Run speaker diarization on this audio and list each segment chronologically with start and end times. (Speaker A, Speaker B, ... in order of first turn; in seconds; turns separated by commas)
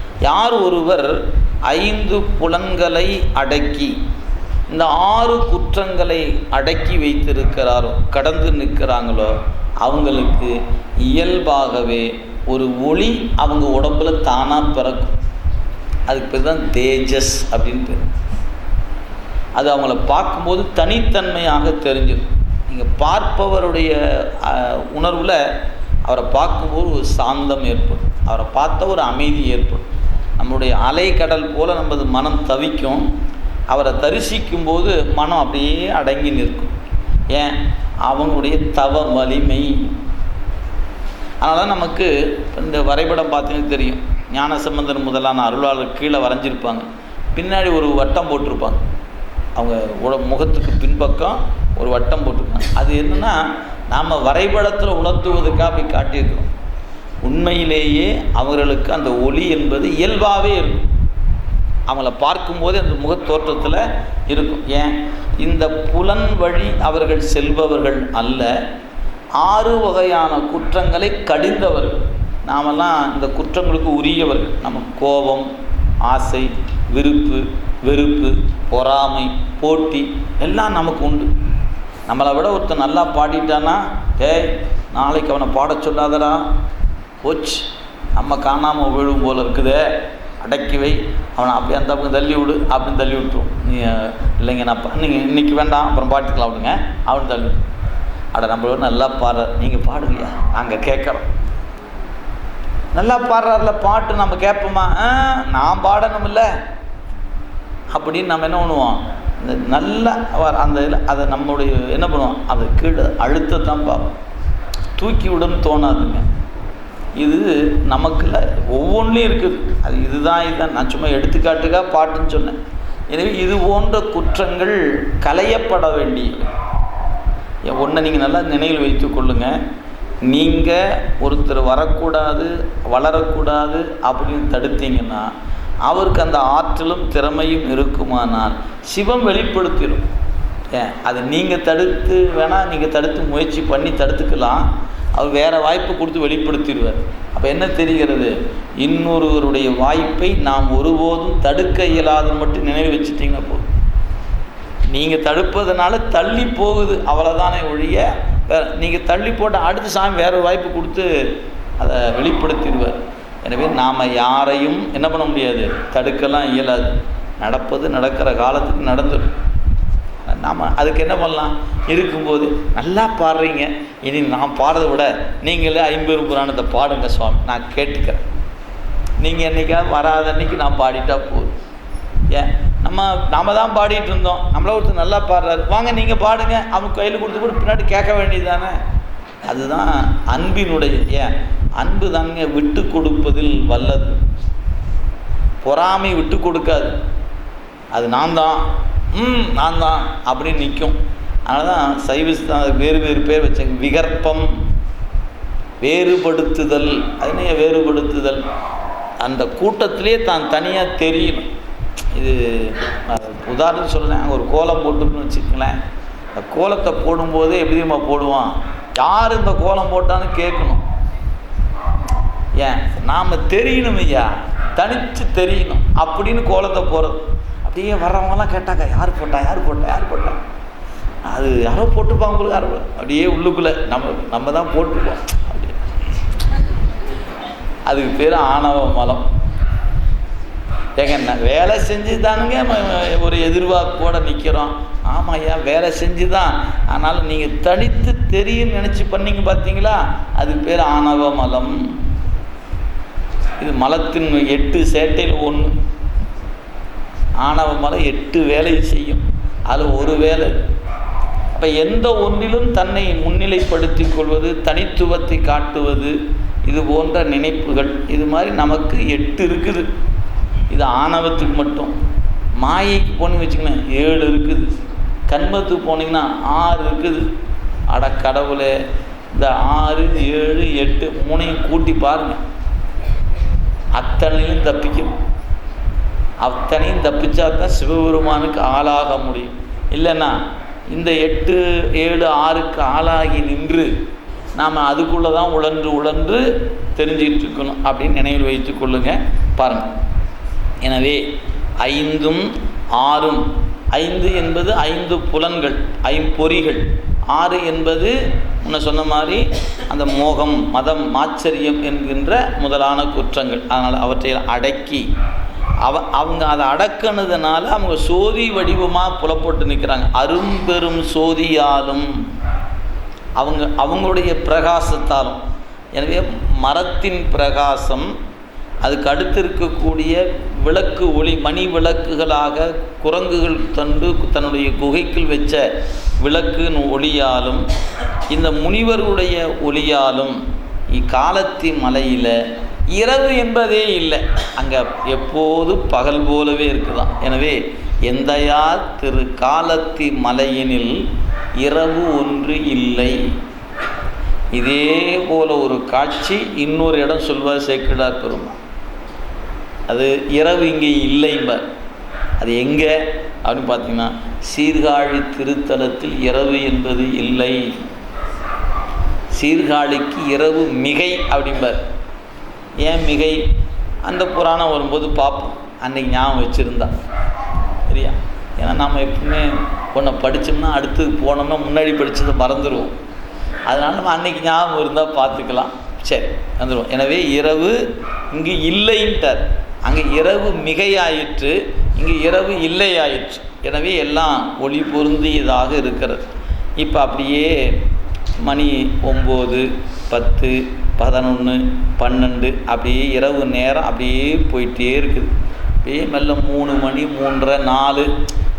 Speaker A: 0.2-3.9, Speaker A: 4.7-15.1, Speaker A: 16.1-18.1, Speaker A: 19.6-25.4, Speaker A: 26.0-29.9, Speaker A: 30.4-33.0, Speaker A: 33.7-36.7, Speaker A: 37.3-39.9, Speaker A: 41.4-48.8, Speaker A: 49.5-53.4, Speaker A: 53.9-56.5, Speaker A: 57.2-60.9, Speaker A: 61.9-68.5, Speaker A: 69.4-75.5, Speaker A: 76.0-81.3, Speaker A: 82.1-86.4, Speaker A: 87.2-89.8, Speaker A: 90.4-97.6, Speaker A: 98.3-101.2, Speaker A: 102.9-106.5, Speaker A: 107.9-114.1, Speaker A: 115.0-116.2, Speaker A: 117.2-122.6, Speaker A: 123.1-126.5, Speaker A: 127.7-129.5, Speaker A: 130.2-135.3, Speaker A: 135.8-140.0, Speaker A: 140.7-153.7, Speaker A: 154.9-161.1, Speaker A: 161.8-169.3, Speaker A: 170.2-178.2, Speaker A: 179.2-181.5, Speaker A: 182.3-188.8, Speaker A: 189.5-194.2, Speaker A: 195.6-196.9, Speaker A: 197.9-200.9, Speaker A: 201.5-204.5, Speaker A: 205.8-208.4, Speaker A: 209.2-211.5, Speaker A: 212.1-215.8, Speaker A: 216.4-220.8, Speaker A: 222.6-230.4, Speaker A: 231.3-235.8, Speaker A: 237.9-239.2, Speaker A: 241.0-251.8, Speaker A: 253.6-255.7, Speaker A: 257.4-260.5, Speaker A: 261.5-269.9, Speaker A: 270.7-271.9, Speaker A: 272.6-274.7, Speaker A: 275.3-277.3, Speaker A: 277.9-278.7, Speaker A: 279.3-282.4, Speaker A: 283.9-285.1, Speaker A: 286.4-290.4, Speaker A: 290.9-293.9, Speaker A: 294.6-299.9, Speaker A: 300.8-301.2, Speaker A: 301.8-315.0, Speaker A: 315.8-322.1, Speaker A: 323.4-325.4, Speaker A: 325.9-328.1, Speaker A: 328.8-335.6, Speaker A: 336.2-337.6, Speaker A: 338.3-340.4, Speaker A: 340.9-342.4, Speaker A: 342.9-351.0, Speaker A: 351.6-353.2, Speaker A: 354.5-358.5, Speaker A: 359.9-361.6, Speaker A: 362.4-367.6, Speaker A: 369.3-371.8, Speaker A: 372.8-373.4, Speaker A: 374.0-376.9, Speaker A: 377.9-382.9, Speaker A: 383.7-387.8, Speaker A: 388.3-396.2, Speaker A: 396.8-397.8, Speaker A: 398.4-405.3, Speaker A: 405.8-408.1